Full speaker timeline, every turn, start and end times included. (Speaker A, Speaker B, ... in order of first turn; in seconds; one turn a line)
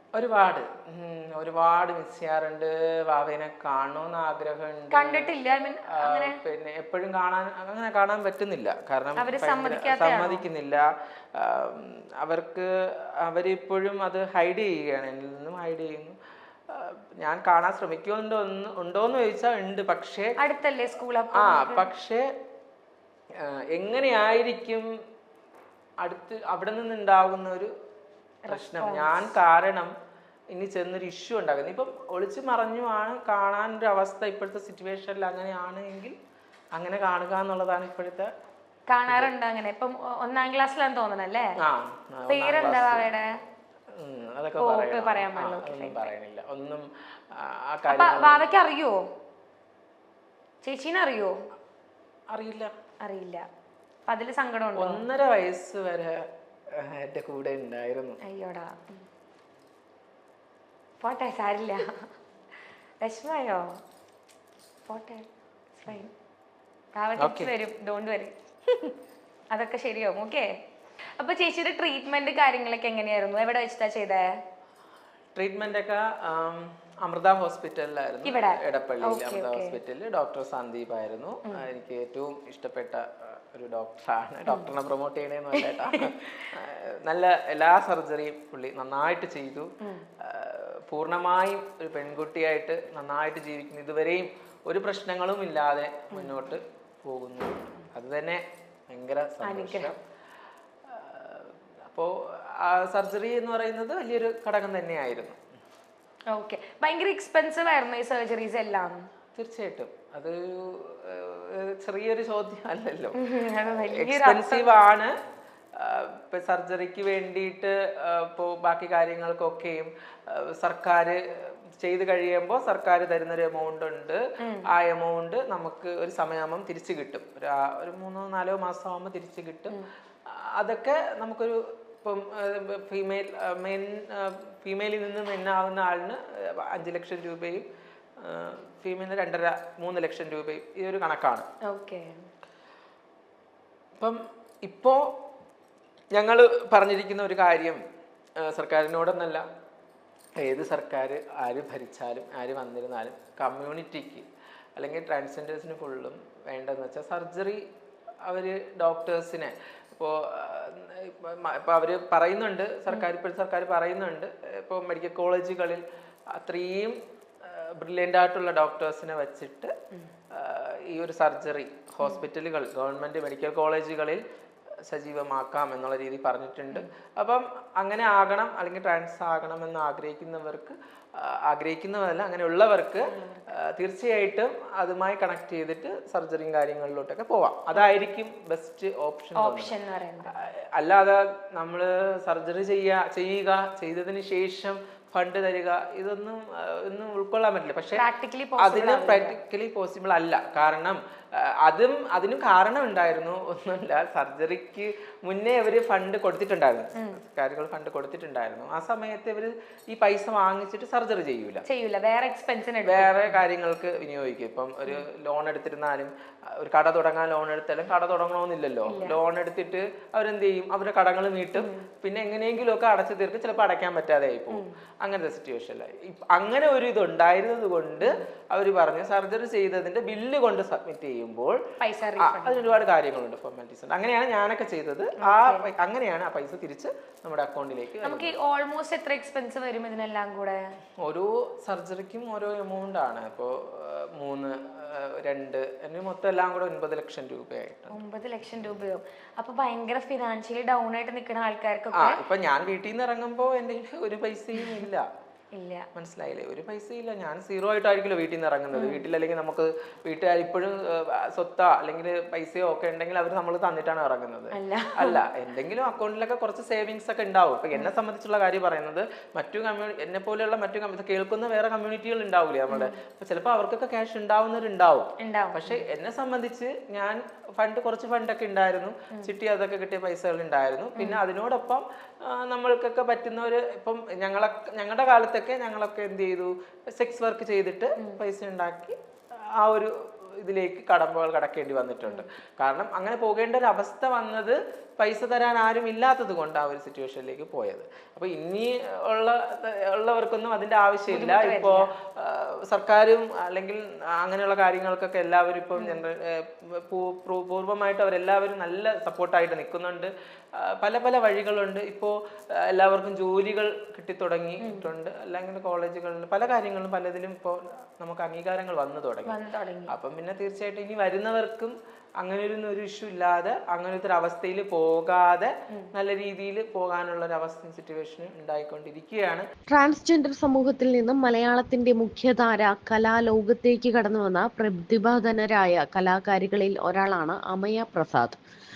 Speaker A: 0.1-5.3
Speaker B: 4.9-6.4
Speaker A: 5.9-16.2
Speaker B: 9.2-10.4
Speaker A: 16.7-20.4
Speaker B: 20.4-21.9
Speaker A: 21.3-22.3
Speaker A: 23.4-24.9
Speaker A: 26.0-27.7
Speaker B: 28.4-29.1
Speaker A: 28.5-29.9
Speaker A: 30.5-36.1
Speaker A: 36.8-38.3
Speaker B: 38.9-41.5
Speaker A: 39.1-39.3
Speaker A: 41.6-43.1
Speaker B: 42.3-43.3
Speaker A: 44.0-48.4
Speaker B: 44.6-46.1
Speaker B: 47.9-49.0
Speaker B: 50.6-51.3
Speaker A: 52.3-52.7
Speaker B: 53.0-53.5
Speaker B: 54.0-55.0
Speaker A: 54.8-58.2
Speaker B: 58.2-59.0
Speaker B: 61.0-62.1
Speaker B: 63.0-63.8
Speaker B: 64.8-66.1
Speaker B: 67.0-68.3
Speaker A: 67.2-67.5
Speaker B: 69.5-70.5
Speaker B: 71.2-74.3
Speaker A: 75.3-100.0
Speaker B: 78.2-79.8
Speaker B: 84.5-84.7
Speaker B: 85.5-86.5
Speaker B: 96.1-96.5
Speaker B: 99.4-99.9
Speaker A: 100.9-105.4
Speaker B: 106.3-109.0
Speaker A: 109.3-115.1
Speaker B: 113.2-114.8
Speaker A: 115.7-121.2
Speaker A: 121.8-129.8
Speaker B: 124.4-124.7
Speaker A: 130.3-137.7
Speaker A: 138.2-141.5
Speaker B: 141.7-142.2
Speaker A: 144.0-145.1
Speaker A: 146.1-147.8
Speaker A: 148.4-149.4
Speaker A: 150.4-157.6
Speaker A: 158.2-169.7
Speaker A: 170.3-174.2
Speaker A: 174.9-189.7
Speaker B: 183.1-183.5
Speaker B: 189.3-190.3
Speaker A: 190.3-198.0
Speaker B: 197.9-199.3
Speaker A: 198.6-211.6
Speaker B: 211.7-213.4
Speaker A: 212.8-231.6
Speaker B: 218.8-219.2
Speaker B: 221.5-221.9
Speaker B: 231.8-232.8
Speaker A: 232.2-238.3
Speaker B: 235.2-235.7
Speaker B: 238.0-240.6
Speaker A: 241.0-247.9
Speaker B: 247.9-252.2
Speaker A: 251.9-255.1
Speaker B: 254.6-254.9
Speaker B: 255.5-255.9
Speaker A: 255.9-289.0
Speaker B: 258.7-259.0
Speaker B: 264.5-265.3
Speaker B: 272.7-272.9
Speaker B: 275.2-275.8
Speaker B: 281.0-281.2
Speaker A: 289.6-319.3
Speaker B: 301.1-301.9
Speaker B: 305.8-306.0
Speaker B: 314.6-314.9
Speaker B: 319.2-319.9
Speaker A: 319.9-329.4
Speaker C: 329.7-338.4